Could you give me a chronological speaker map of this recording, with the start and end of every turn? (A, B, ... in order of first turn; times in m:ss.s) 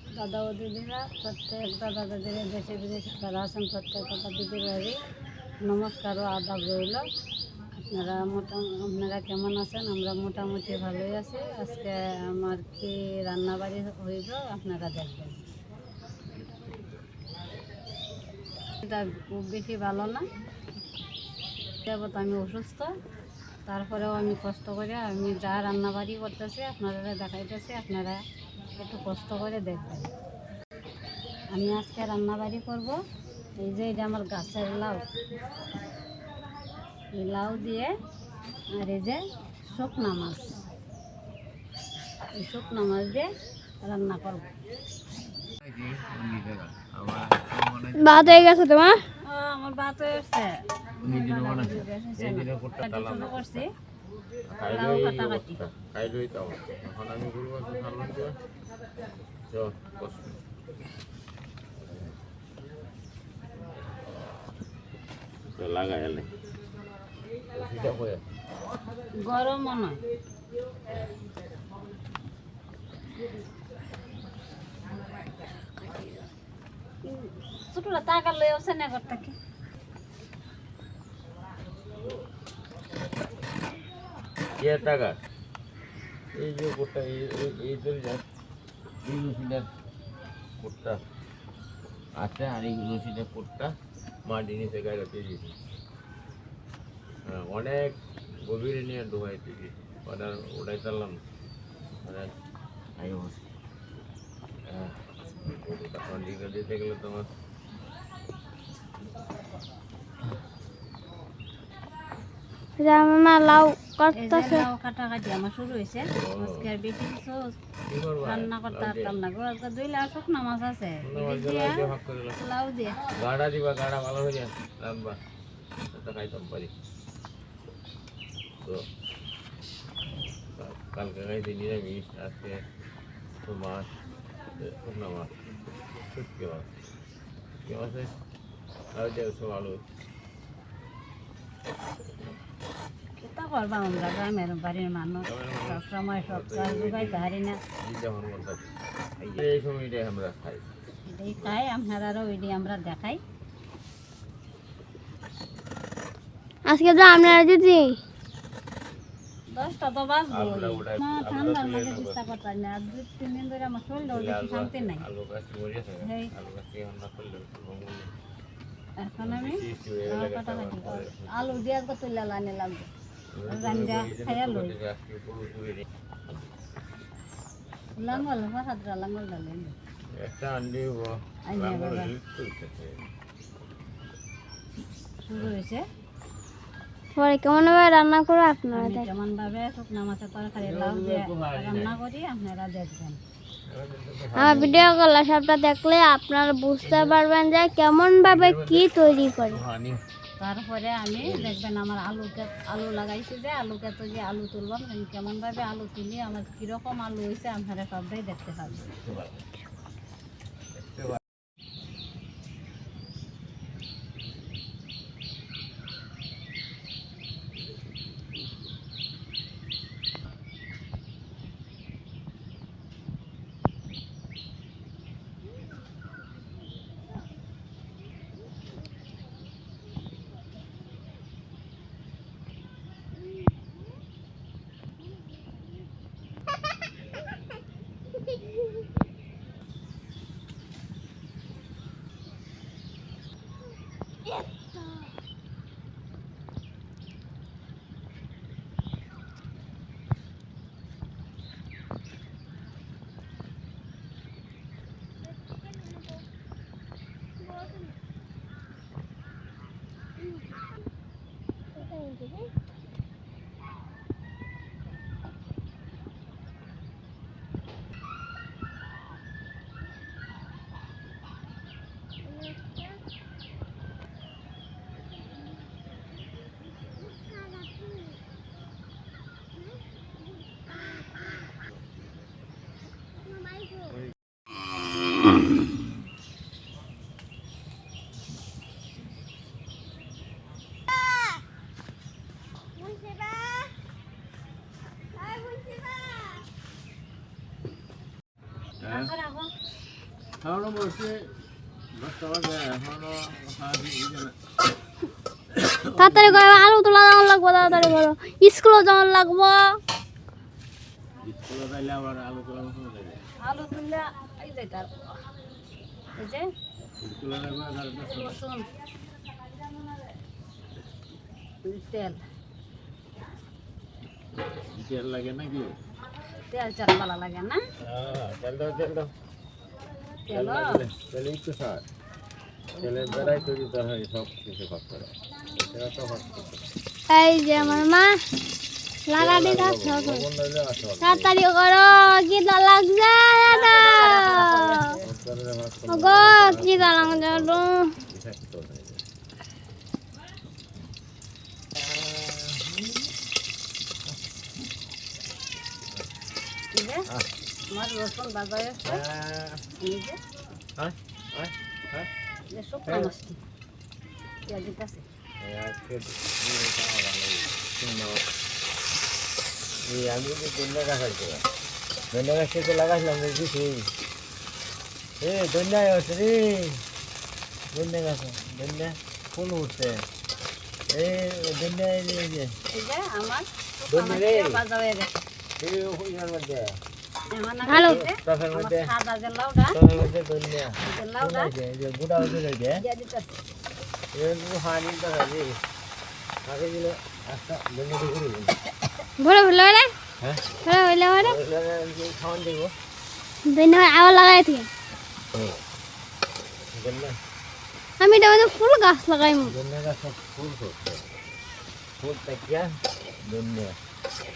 0:00.1-0:05.0 A
0:05.6-0:07.0 A
0:07.8-0:15.4 A
0:18.8-0:20.2 A
0:21.8-0:22.9 A
0:23.6-0:28.2 A
0:28.8-0:30.1 A
0:31.5-0:33.0 A
0:33.6-0:35.1 A
0:37.1-0:37.9 A
0:38.7-0:39.2 A
0:39.7-0:40.6 A
0:42.4-0:43.3 A
0:43.8-0:44.5 A
0:45.6-0:48.5 B
0:48.0-0:49.0 C
0:49.2-0:53.7 A
0:51.0-0:53.6 B
0:54.5-0:58.4 B
0:54.6-0:55.6 A
0:59.5-1:00.4 B
1:05.6-1:06.3 B
1:07.5-1:08.2 B
1:09.2-1:10.0 A
1:17.1-1:19.4 A
1:24.6-1:25.2 B
1:26.3-1:28.2 B
1:29.0-1:29.6 B
1:30.6-1:31.0 B
1:32.2-1:33.7 B
1:34.2-1:35.5 B
1:37.2-1:41.2 B
1:42.0-1:42.3 B
1:43.0-1:43.4 B
1:44.7-1:47.3 B
1:52.8-1:54.6 C
1:54.1-1:57.4 A
1:56.2-1:56.7 B
1:57.9-1:59.2 B
1:58.2-2:03.0 A
2:01.0-2:02.4 B
2:03.2-2:05.2 B
2:05.9-2:06.7 B
2:10.6-2:12.6 B
2:13.4-2:13.9 B
2:14.6-2:15.3 B
2:16.0-2:16.7 B
2:17.6-2:18.1 B
2:18.9-2:19.8 B
2:23.2-2:27.6 A
2:25.2-2:30.6 B
2:31.1-2:33.2 A
2:36.6-2:38.0 C
2:39.5-2:45.0 A
2:40.3-2:42.2 B
2:44.0-2:48.1 B
2:46.0-2:46.3 A
2:49.0-2:52.9 A
2:49.2-2:51.7 B
2:53.3-2:56.5 B
2:53.5-2:54.7 A
2:58.0-2:59.8 A
3:00.1-3:03.0 B
3:01.5-3:02.1 A
3:05.3-3:05.8 A
3:07.2-3:09.0 C
3:08.7-3:13.2 A
3:10.6-3:12.0 B
3:13.7-3:14.9 B
3:14.4-3:19.6 C
3:16.8-3:17.2 B
3:18.2-3:20.0 B
3:20.4-3:28.9 A
3:21.1-3:21.6 B
3:28.9-3:29.5 B
3:30.8-3:31.2 B
4:21.8-4:22.4 C
4:43.6-4:43.9 C
4:52.8-4:53.7 C
4:55.2-4:56.4 C
4:58.8-4:59.1 B
4:58.8-4:59.5 A
5:00.4-5:01.3 B
5:01.9-5:04.3 B
5:05.5-5:06.5 B
5:06.0-5:09.8 C
5:07.7-5:08.0 B
5:11.2-5:13.2 B
5:13.4-5:15.0 A
5:16.2-5:16.4 A
5:17.0-5:18.4 B
5:18.0-5:18.6 A
5:21.6-5:22.2 A
5:24.7-5:25.8 B
5:26.5-5:27.6 A
5:27.8-5:29.1 B
5:30.3-5:30.8 A
5:30.3-5:31.8 B
5:32.8-5:36.7 B
5:32.8-5:33.3 A
5:37.1-5:38.1 C
5:37.5-5:37.9 B
5:39.1-5:40.2 C
5:39.2-5:41.3 B
5:41.0-5:44.9 C
5:43.5-5:45.0 A
5:45.0-5:49.0 B
5:45.9-5:47.9 C
5:51.7-5:53.0 B
5:56.7-5:57.1 A
5:57.7-5:59.0 A
5:58.8-5:59.6 B
5:59.8-6:00.2 A
6:00.8-6:02.1 B
6:02.5-6:03.4 A
6:02.9-6:03.1 B
6:04.5-6:05.0 A
6:05.4-6:08.2 B
6:09.8-6:11.4 B
6:12.1-6:13.9 B
6:15.2-6:16.8 B
6:17.7-6:20.0 B
6:20.9-6:22.5 B
6:22.7-6:25.1 A
6:23.9-6:24.6 B
6:25.6-6:26.8 B
6:27.3-6:29.8 A
6:27.7-6:28.0 C
6:27.8-6:28.9 B
6:29.7-6:32.8 B
6:30.8-6:31.5 A
6:32.8-6:33.4 A
6:34.1-6:35.6 B
6:36.4-6:38.6 B
6:39.2-6:39.9 C
6:40.6-6:41.4 C
6:41.2-6:42.7 B
6:43.5-6:44.7 C
6:45.3-6:45.6 B
6:46.7-6:47.2 B
6:48.0-6:49.5 C
6:49.4-6:51.0 B
6:52.0-6:52.7 B
6:53.2-6:53.8 B